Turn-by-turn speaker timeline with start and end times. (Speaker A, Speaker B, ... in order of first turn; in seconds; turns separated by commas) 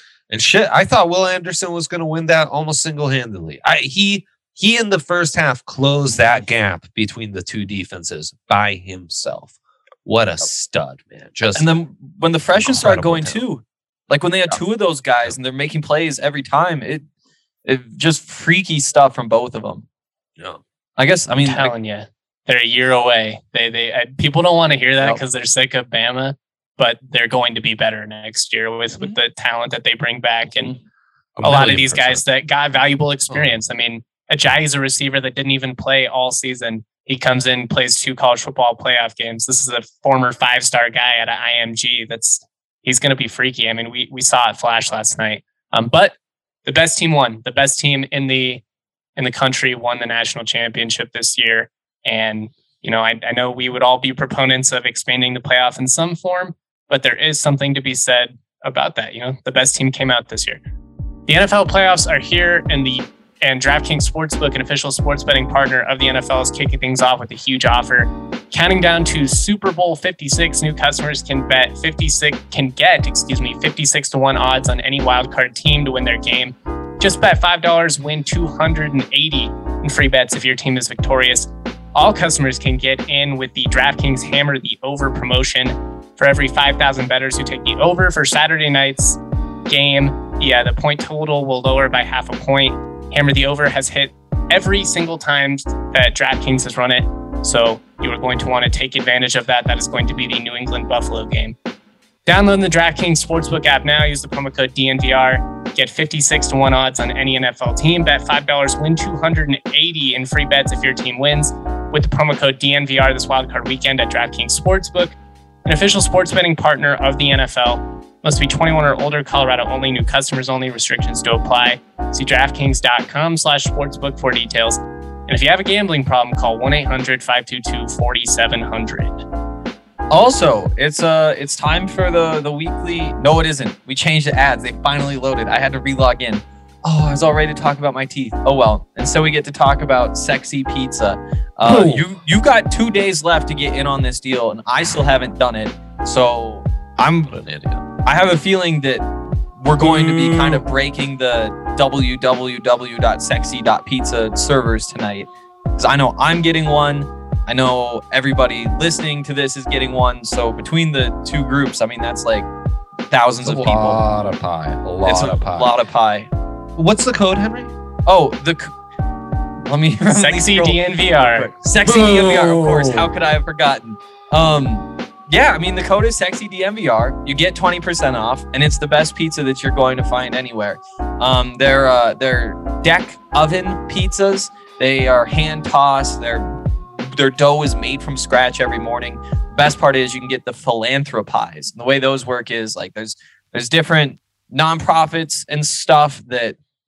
Speaker A: 0.3-9.5, Speaker A: 10.0-11.8, Speaker B: 11.5-17.0, Speaker A: 12.5-13.4, Speaker B: 17.6-19.8, Speaker B: 21.0-21.7, Speaker C: 21.4-30.7, Speaker A: 31.4-32.2, Speaker C: 31.4-48.6, Speaker A: 33.3-33.6, Speaker C: 49.2-60.6, Speaker C: 61.3-101.5, Speaker C: 102.2-129.2, Speaker B: 130.1-147.4, Speaker A: 141.6-142.1, Speaker A: 147.3-147.9, Speaker B: 148.0-149.1, Speaker B: 149.6-162.5, Speaker A: 149.8-150.6, Speaker B: 163.1-164.0, Speaker A: 163.4-165.7, Speaker B: 165.0-166.3, Speaker A: 166.8-167.7, Speaker B: 168.1-168.7, Speaker B: 169.6-196.6, Speaker C: 170.0-171.5, Speaker A: 171.8-173.1